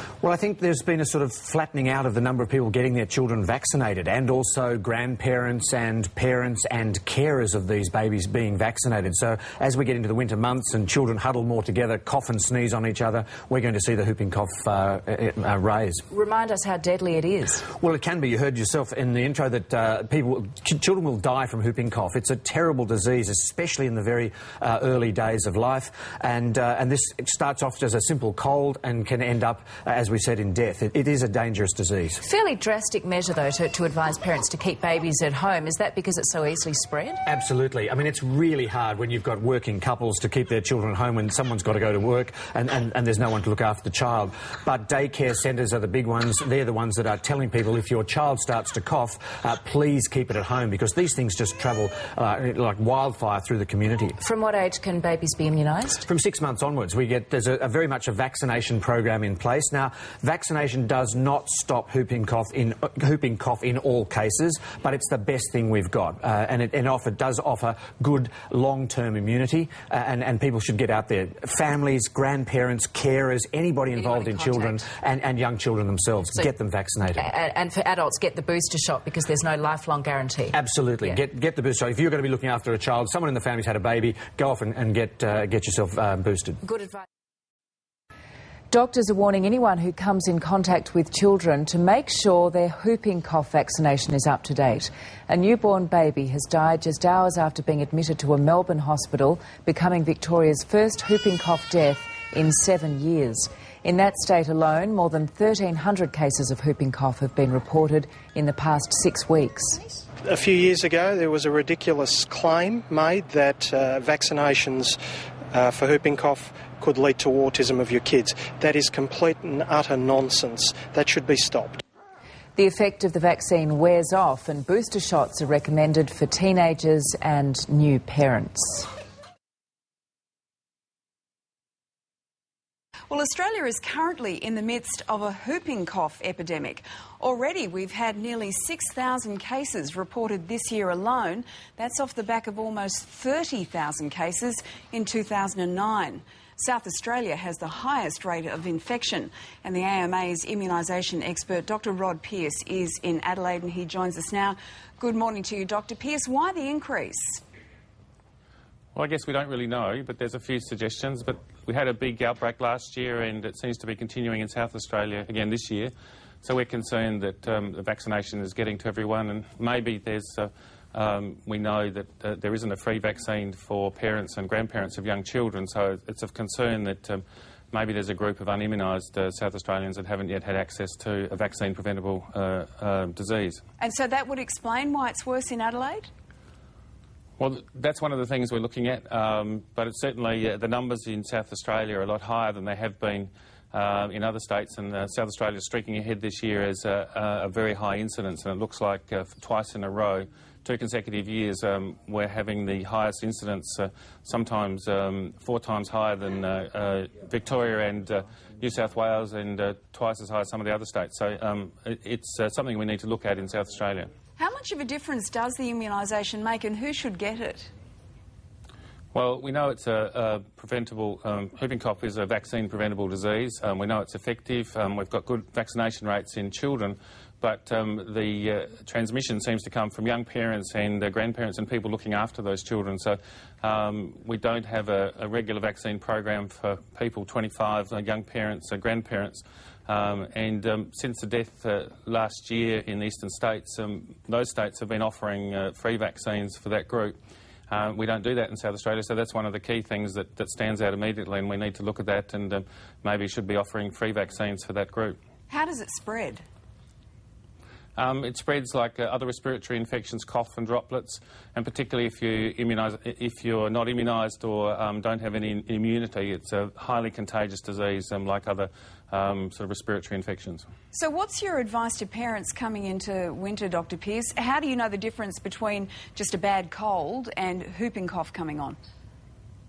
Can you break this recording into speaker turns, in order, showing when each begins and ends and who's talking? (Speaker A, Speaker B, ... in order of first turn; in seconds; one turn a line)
Speaker A: 0.2-16.1
Speaker B: 16.1-17.6
Speaker A: 17.8-32.2
Speaker B: 32.2-37.2
Speaker A: 37.3-54.2
Speaker B: 54.2-56.0
Speaker A: 56.0-77.3
Speaker B: 74.0-74.8
Speaker B: 77.2-80.6
Speaker A: 80.5-86.6
Speaker B: 88.7-109.8
Speaker C: 110.3-115.0
Speaker C: 115.5-121.8
Speaker B: 122.6-128.9
Speaker D: 133.1-157.4
Speaker E: 158.9-183.6
Speaker D: 183.8-186.1
Speaker E: 187.4-214.1
Speaker D: 214.4-217.7
Speaker E: 219.1-247.2
Speaker E: 247.7-255.2
Speaker D: 255.5-256.4
Speaker E: 258.0-270.6
Speaker D: 270.9-278.8